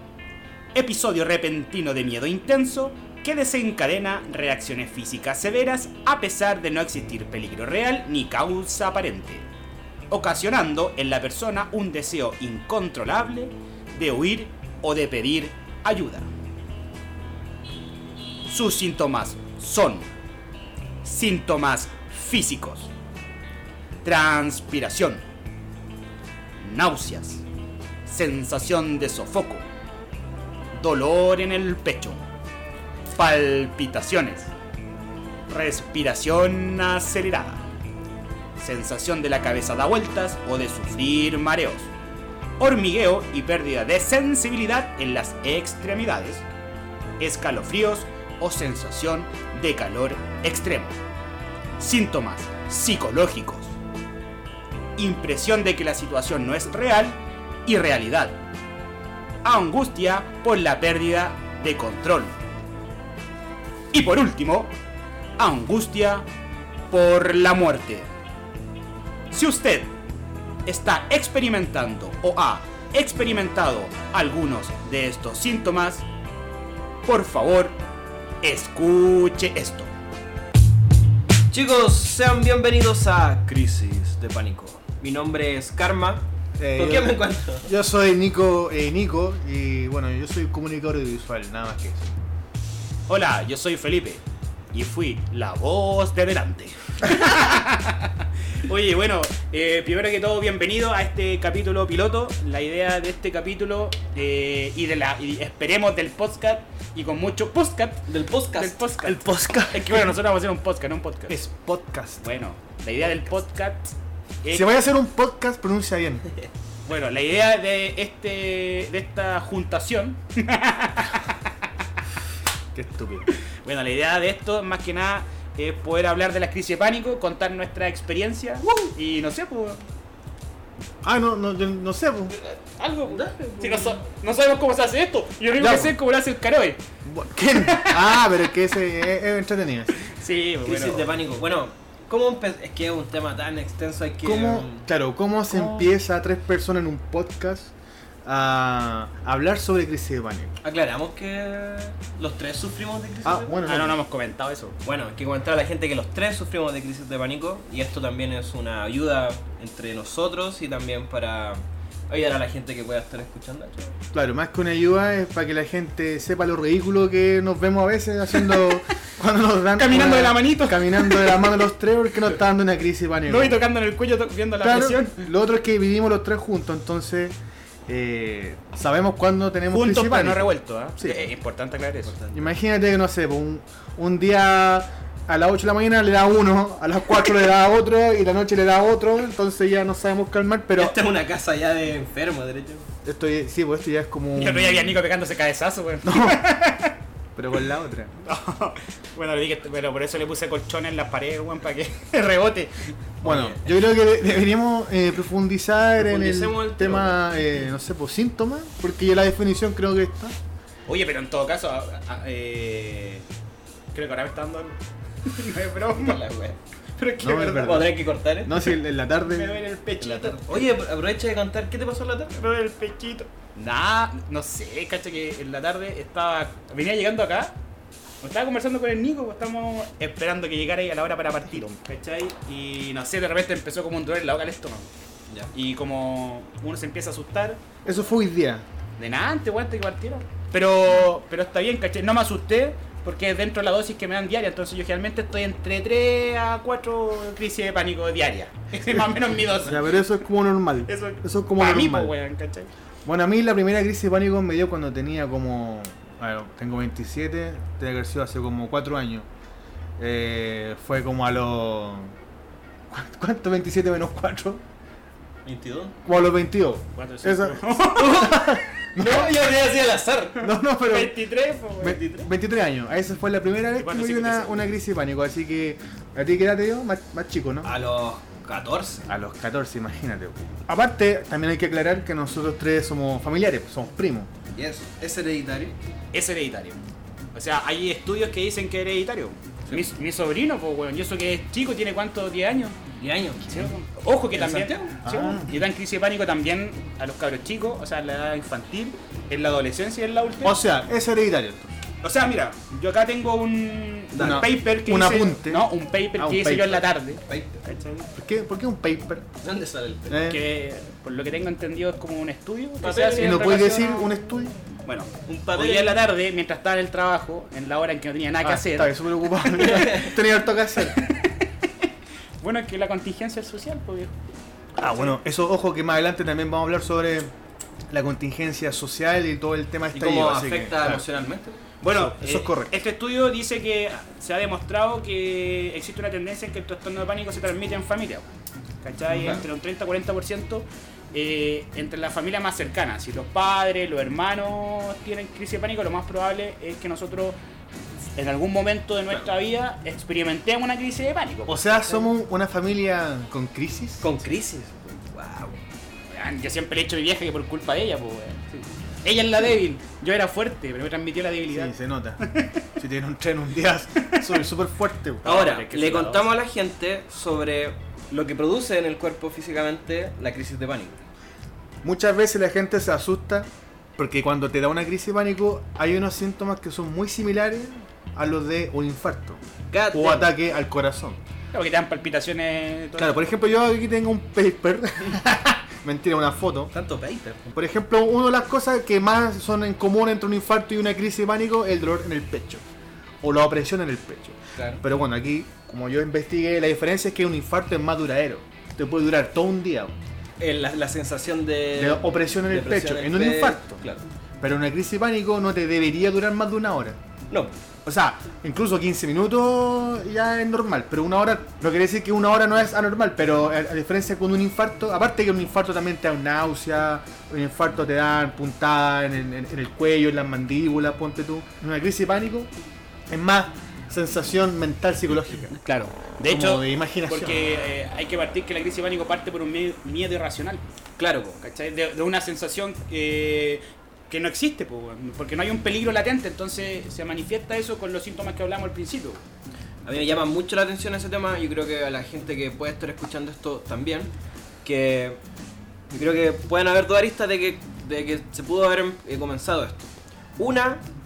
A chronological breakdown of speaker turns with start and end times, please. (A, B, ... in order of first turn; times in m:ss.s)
0:00.7-0:09.4 A
0:10.1-0:16.3 A
0:18.4-0:20.1 A
0:21.0-0:22.9 A
0:24.0-0:25.2 A
0:26.6-0:27.4 A
0:28.0-0:29.6 A
0:30.7-0:32.2 A
0:33.1-0:34.5 A
0:35.5-0:37.6 A
0:38.6-0:41.9 A
0:42.6-0:46.4 A
0:47.2-0:51.0 A
0:51.8-0:53.7 A
0:55.0-0:58.4 A
0:59.4-1:02.4 A
1:03.9-1:04.7 A
1:05.4-1:06.3 A
1:06.9-1:08.1 A
1:09.3-1:09.9 A
1:10.6-1:16.0 A
1:17.0-1:17.8 A
1:18.4-1:19.9 A
1:21.5-1:27.7 B
1:26.6-1:32.2 C
1:33.1-1:34.2 A
1:34.7-1:51.4 A
1:48.1-1:48.8 B
1:49.0-1:50.2 C
1:51.3-1:52.2 C
1:52.2-1:54.7 A
1:54.5-1:56.3 C
1:56.8-2:01.4 A
2:02.7-2:03.3 C
2:03.6-2:09.8 A
2:11.0-2:12.3 C
2:12.5-2:16.8 A
2:13.0-2:14.0 B
2:15.6-2:15.9 C
2:17.0-2:20.0 C
2:17.5-2:18.3 A
2:19.9-2:21.1 A
2:20.6-2:24.8 B
2:24.2-2:27.7 C
2:25.5-2:25.8 A
2:28.2-2:30.5 C
2:30.6-2:33.6 B
2:33.2-2:34.0 C
2:33.6-2:34.7 A
2:34.8-2:43.9 B
2:44.1-2:53.6 C
2:49.7-2:51.6 A
2:53.2-2:55.3 A
2:54.6-2:57.3 C
2:57.9-3:01.3 C
2:59.7-3:02.1 A
3:02.0-3:02.5 B
3:02.3-3:11.0 C
3:10.7-3:12.9 B
3:13.0-3:15.0 C
3:14.4-3:17.0 A
3:16.0-3:16.4 C
3:17.3-3:18.3 C
3:18.2-3:22.9 A
3:23.2-3:30.3 C
3:23.2-3:23.6 B
3:26.0-3:27.4 B
3:30.9-3:33.2 A
3:33.9-3:36.2 A
3:35.9-3:36.6 B
3:37.0-3:37.8 A
3:37.2-3:40.2 C
3:37.5-3:38.6 B
3:39.2-3:40.7 A
3:40.1-3:42.4 B
3:42.4-3:47.5 A
3:48.2-3:54.9 A
3:55.5-3:57.6 A
3:57.8-3:58.6 C
3:59.0-4:09.9 A
4:08.9-4:12.1 C
4:10.9-4:12.7 A
4:13.0-4:19.3 C
4:20.0-4:22.1 C
4:22.9-4:24.6 C
4:25.4-4:26.0 B
4:26.0-4:29.3 C
4:26.9-4:28.3 A
4:28.0-4:30.4 B
4:30.4-4:31.2 C
4:30.8-4:32.2 A
4:31.8-4:37.7 C
4:32.0-4:32.2 B
4:33.8-4:34.7 A
4:37.6-4:39.0 B
4:39.1-4:44.3 C
4:44.5-4:45.7 B
4:46.1-4:46.8 A
4:47.3-4:52.8 A
4:52.9-4:53.8 B
4:53.5-5:00.6 A
4:54.3-4:54.9 B
4:55.0-4:55.5 C
5:00.4-5:01.7 C
5:02.0-5:08.1 A
5:04.1-5:04.5 B
5:04.1-5:06.8 C
5:07.3-5:07.6 B
5:08.1-5:09.2 C
5:09.4-5:10.3 B
5:10.1-5:10.4 C
5:10.2-5:13.9 A
5:12.8-5:14.1 B
5:13.2-5:14.5 C
5:14.8-5:19.1 A
5:15.2-5:16.0 B
5:18.4-5:21.0 C
5:19.6-5:20.2 B
5:20.9-5:21.9 A
5:22.4-5:24.1 A
5:24.8-5:27.3 C
5:27.9-5:31.0 C
5:29.9-5:31.6 B
5:31.8-5:38.2 A
5:31.9-5:32.7 C
5:38.8-5:47.4 A
5:39.1-5:39.4 C
5:48.2-5:52.0 A
5:51.5-5:54.2 C
5:54.0-5:55.6 B
5:56.1-6:02.6 A
6:01.5-6:05.2 C
6:05.2-6:06.4 A
6:05.2-6:11.0 B
6:11.8-6:19.4 C
6:19.7-6:20.3 B
6:19.9-6:21.2 C
6:21.5-6:23.2 A
6:23.0-6:26.7 C
6:26.7-6:27.5 B
6:27.5-6:32.6 C
6:33.2-6:40.0 C
6:34.6-6:34.8 B
6:40.4-6:44.1 B
6:41.8-6:43.8 C
6:44.4-6:47.0 C
6:47.8-7:02.5 C
7:03.1-7:05.6 C
7:05.6-7:10.6 A
7:06.2-7:07.5 C
7:11.0-7:11.4 B
7:11.4-7:19.2 A
7:19.8-7:24.1 B
7:24.6-7:25.2 B
7:25.9-7:30.8 B